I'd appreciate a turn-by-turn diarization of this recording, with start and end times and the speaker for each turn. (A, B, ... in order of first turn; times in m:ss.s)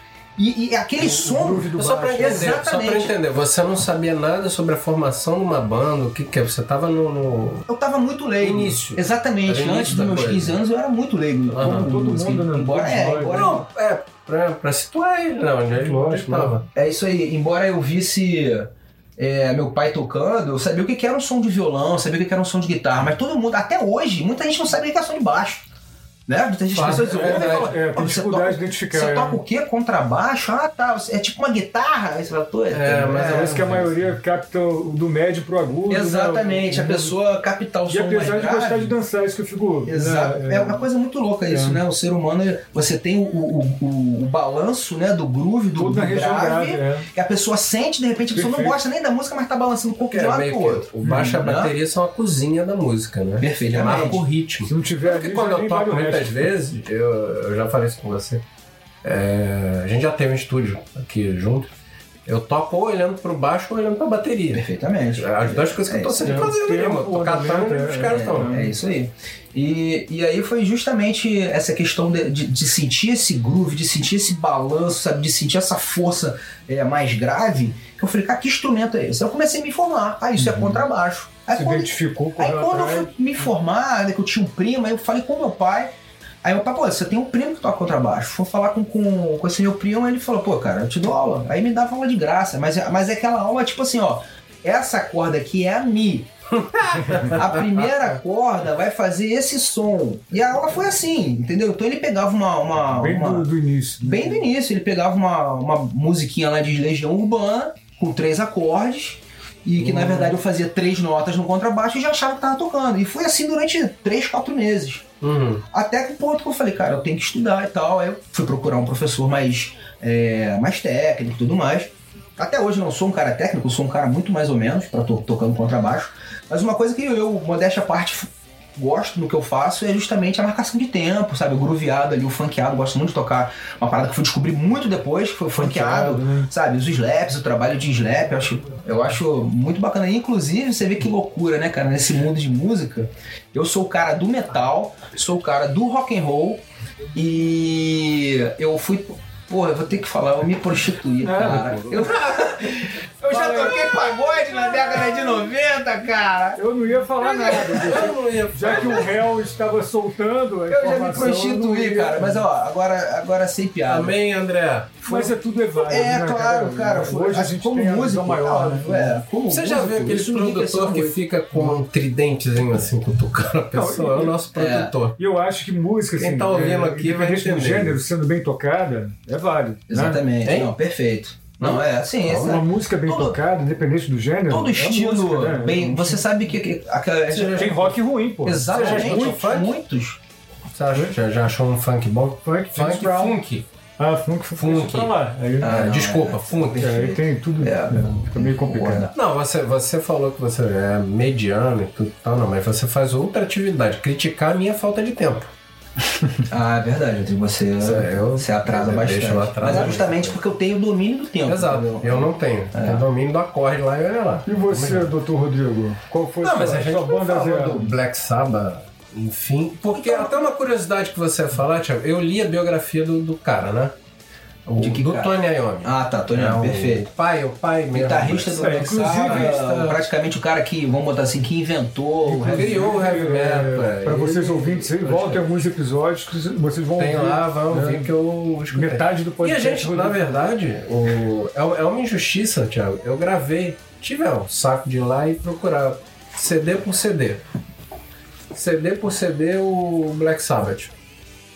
0:00.4-0:03.1 A
0:01.0-0:02.6 B
0:01.8-0:07.7 C
0:07.7-0:13.6 A
0:08.4-0:10.6 C
0:11.5-0:11.9 C
0:11.6-0:13.6 B
0:13.3-0:16.6 C
0:15.7-0:16.6 B
0:16.7-0:25.7 A
0:26.3-0:33.7 A
0:26.7-0:27.7 C
0:26.8-0:29.4 B
0:32.7-0:34.2 C
0:33.1-0:37.2 B
0:35.9-0:39.0 A
0:37.9-0:40.8 B
0:39.8-0:51.7 A
0:41.5-0:41.8 B
0:45.8-0:47.1 B
0:48.3-0:48.8 B
0:50.1-0:58.4 C
0:51.0-0:51.4 B
0:53.4-0:54.3 A
0:54.6-0:56.5 B
0:59.0-1:01.7 C
1:02.2-1:08.5 C
1:04.5-1:06.5 A
1:06.2-1:08.7 B
1:08.0-1:36.3 A
1:20.4-1:20.8 B
1:21.5-1:23.2 B
1:36.6-1:37.9 C
1:36.9-1:43.5 A
1:42.9-1:44.5 B
1:44.0-1:55.0 A
1:55.2-1:55.6 C
1:55.7-2:26.6 A
2:15.6-2:16.5 B
2:27.1-2:36.6 A
2:31.2-2:32.1 B
2:33.3-2:33.9 B
2:36.6-2:42.5 B
2:37.2-2:39.2 C
2:37.4-2:38.0 A
2:38.7-2:39.0 A
2:40.7-2:44.2 A
2:43.9-2:45.0 C
2:45.0-2:49.2 B
2:45.0-2:51.2 A
2:49.5-2:55.2 C
2:53.7-2:54.4 B
2:54.5-2:54.9 A
2:55.2-3:00.2 B
2:56.2-2:58.0 C
2:59.9-3:03.4 A
3:00.4-3:00.7 C
3:01.6-3:02.6 C
3:02.3-3:06.2 B
3:04.5-3:07.9 A
3:07.3-3:07.9 C
3:07.5-3:09.5 B
3:08.4-3:10.2 A
3:08.7-3:09.7 C
3:10.7-3:13.6 C
3:12.4-3:13.4 B
3:14.0-3:15.8 B
3:14.5-3:16.9 C
3:15.6-3:19.1 A
3:16.7-3:19.1 B
3:19.1-3:25.5 C
3:26.5-3:33.0 A
3:27.8-3:30.4 C
3:31.4-3:35.1 C
3:34.4-3:37.9 B
3:36.4-3:44.0 C
3:39.9-3:40.5 A
3:44.7-3:50.0 C
3:44.8-3:47.1 A
3:47.9-3:53.0 A
3:48.6-3:49.6 B
3:52.2-3:58.1 B
3:52.4-3:55.4 C
3:57.0-4:07.4 C
3:58.7-4:00.4 B
4:08.5-4:10.9 C